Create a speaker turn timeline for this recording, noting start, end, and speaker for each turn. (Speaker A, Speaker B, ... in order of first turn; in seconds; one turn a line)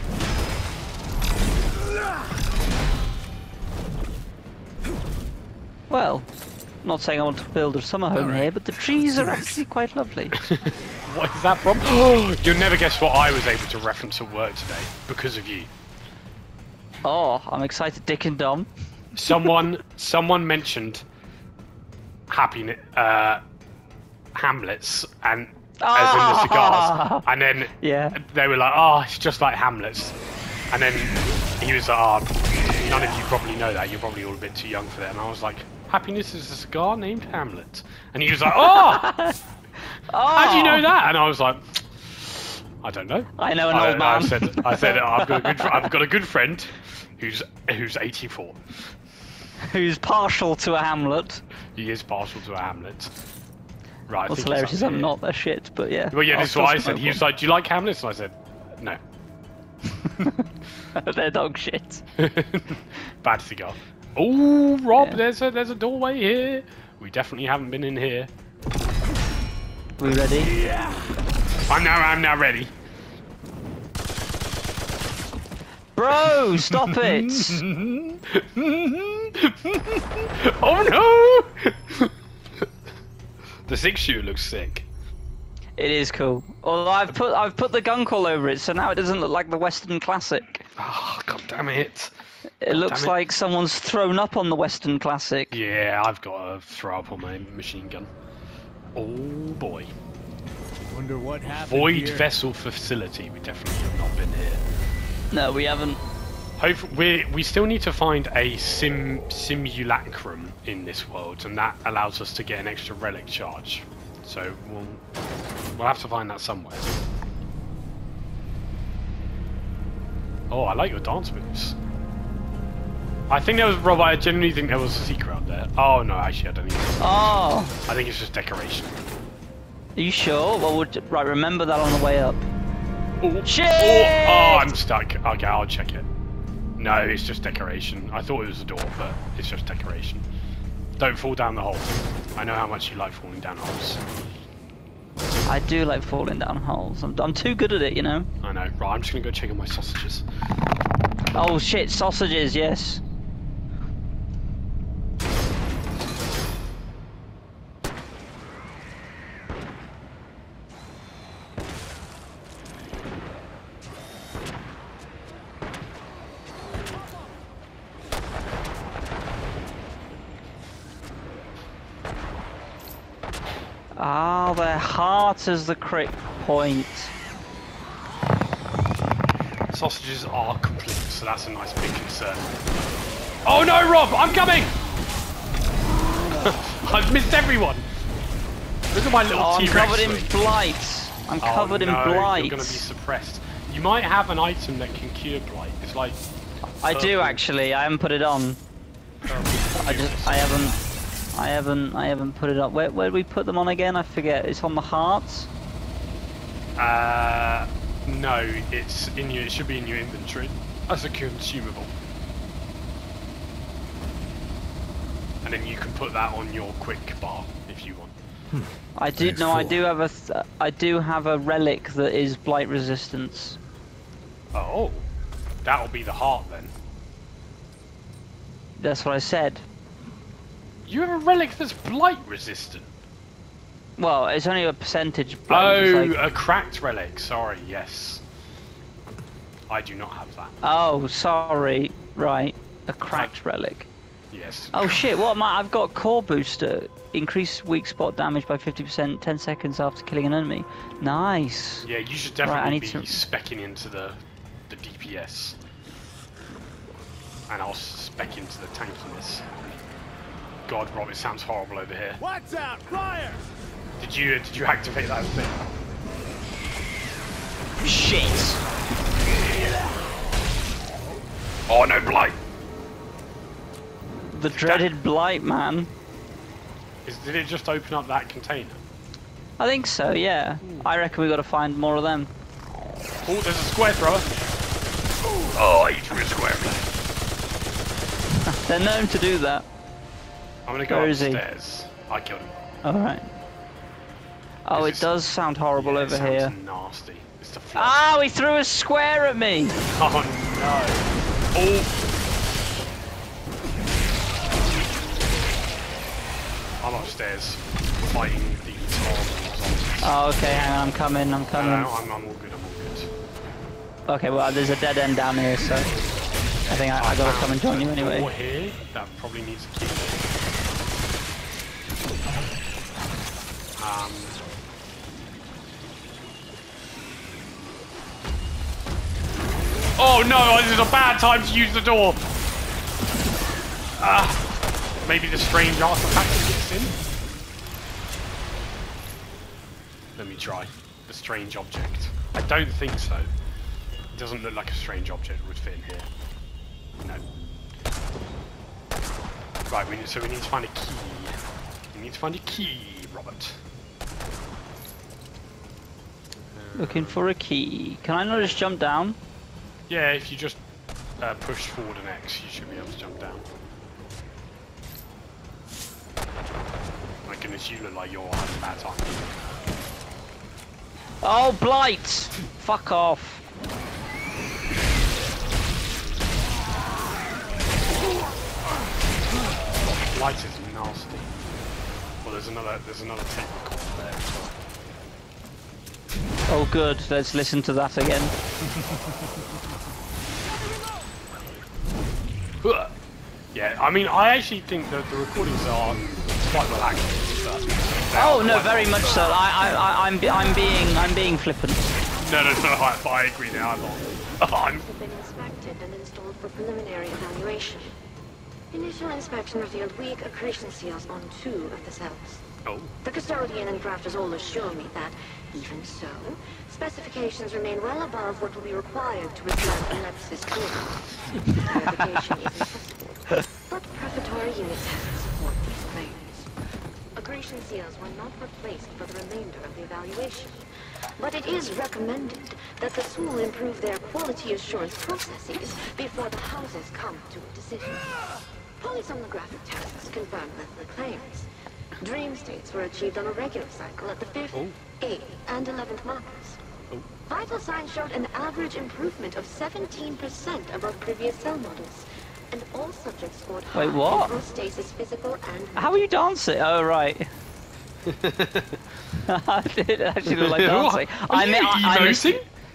Speaker A: 5.9-6.3
Speaker A: 6.8-10.4
Speaker B: 8.2-8.5
Speaker C: 10.4-15.7
Speaker A: 17.0-18.7
Speaker C: 19.1-21.0
Speaker A: 19.3-19.5
Speaker C: 22.3-23.4
Speaker C: 24.3-30.1
Speaker A: 25.8-27.2
Speaker A: 27.8-28.2
Speaker C: 30.7-39.1
Speaker A: 38.5-39.4
Speaker A: 40.1-40.9
Speaker C: 40.3-48.6
Speaker A: 43.4-45.9
Speaker A: 49.6-51.4
Speaker C: 51.8-53.1
Speaker C: 54.1-55.1
Speaker A: 54.3-57.2
Speaker C: 56.1-59.0
Speaker A: 61.0-62.0
Speaker C: 62.2-68.3
Speaker A: 70.0-70.5
Speaker C: 71.7-72.7
Speaker A: 76.0-77.7
Speaker C: 76.3-82.1
Speaker C: 83.7-84.9
Speaker A: 85.8-90.7
Speaker C: 90.8-92.1
Speaker A: 92.6-95.6
Speaker C: 92.7-93.2
Speaker C: 95.5-98.1
Speaker C: 99.0-99.9
Speaker B: 100.9-102.3
Speaker C: 101.5-104.6
Speaker A: 105.3-106.0
Speaker C: 106.6-115.0
Speaker C: 115.7-116.9
Speaker C: 120.5-121.8
Speaker C: 123.3-129.0
Speaker A: 127.0-127.8
Speaker A: 130.0-132.4
Speaker C: 133.2-136.1
Speaker A: 133.4-134.7
Speaker C: 136.8-140.3
Speaker C: 141.0-144.0
Speaker A: 145.5-148.3
Speaker C: 148.4-150.2
Speaker A: 151.3-153.0
Speaker A: 174.0-177.1
Speaker C: 179.7-182.5
Speaker C: 183.4-184.8
Speaker C: 186.4-187.9
Speaker C: 188.9-190.3
Speaker A: 189.3-192.8
Speaker C: 191.4-196.2
Speaker A: 196.8-198.6
Speaker C: 196.9-197.4
Speaker C: 199.2-200.5
Speaker A: 199.8-200.8
Speaker A: 201.3-205.5
Speaker C: 206.8-211.9
Speaker C: 215.4-218.2
Speaker B: 218.5-219.8
Speaker A: 219.0-223.6
Speaker C: 224.5-225.1
Speaker C: 225.6-226.7
Speaker A: 228.8-229.7
Speaker C: 230.9-232.9
Speaker A: 234.0-236.2
Speaker C: 235.5-238.2
Speaker C: 239.7-240.6
Speaker A: 240.6-243.9
Speaker C: 244.3-245.1
Speaker A: 244.7-251.9
Speaker C: 251.8-255.6
Speaker A: 252.4-253.2
Speaker C: 257.5-259.5
Speaker C: 260.7-262.2
Speaker B: 262.2-263.4
Speaker C: 264.0-265.7
Speaker A: 267.8-268.6
Speaker C: 271.7-272.4
Speaker A: 274.3-275.9
Speaker C: 274.5-274.9
Speaker C: 277.1-278.8
Speaker A: 279.6-282.3
Speaker C: 280.6-280.9
Speaker C: 283.2-284.3
Speaker C: 285.5-286.9
Speaker A: 288.4-289.6
Speaker C: 290.7-292.6
Speaker A: 290.9-291.4
Speaker A: 292.8-293.3
Speaker A: 294.7-296.5
Speaker C: 294.7-295.1
Speaker C: 295.8-298.0
Speaker A: 297.8-299.8
Speaker C: 299.9-302.0
Speaker C: 306.8-310.2
Speaker A: 310.0-311.9
Speaker C: 311.6-313.1
Speaker A: 314.1-315.9
Speaker C: 316.6-320.4
Speaker A: 316.7-318.3
Speaker C: 323.8-324.4
Speaker C: 330.0-332.2
Speaker C: 334.0-334.4
Speaker C: 335.1-337.0
Speaker C: 340.2-343.3
Speaker C: 344.1-346.1
Speaker C: 349.7-351.4
Speaker C: 351.9-353.6
Speaker C: 356.5-357.2
Speaker A: 356.8-359.2
Speaker C: 359.9-360.6
Speaker C: 361.2-363.5
Speaker C: 367.2-369.5
Speaker A: 371.2-373.4
Speaker C: 379.8-381.4
Speaker C: 382.2-384.6
Speaker A: 386.5-388.3
Speaker C: 388.6-389.3
Speaker C: 392.6-392.9
Speaker C: 393.5-399.1
Speaker A: 398.1-401.9
Speaker C: 402.2-404.9
Speaker D: 404.9-407.9
Speaker D: 408.7-412.4
Speaker C: 412.6-412.9
Speaker D: 413.0-426.5
Speaker D: 427.2-430.6
Speaker D: 431.2-438.2
Speaker D: 438.8-446.6
Speaker D: 447.3-456.1
Speaker A: 453.7-454.3
Speaker A: 455.8-457.3
Speaker C: 458.1-458.8
Speaker A: 459.3-462.4
Speaker C: 460.3-462.4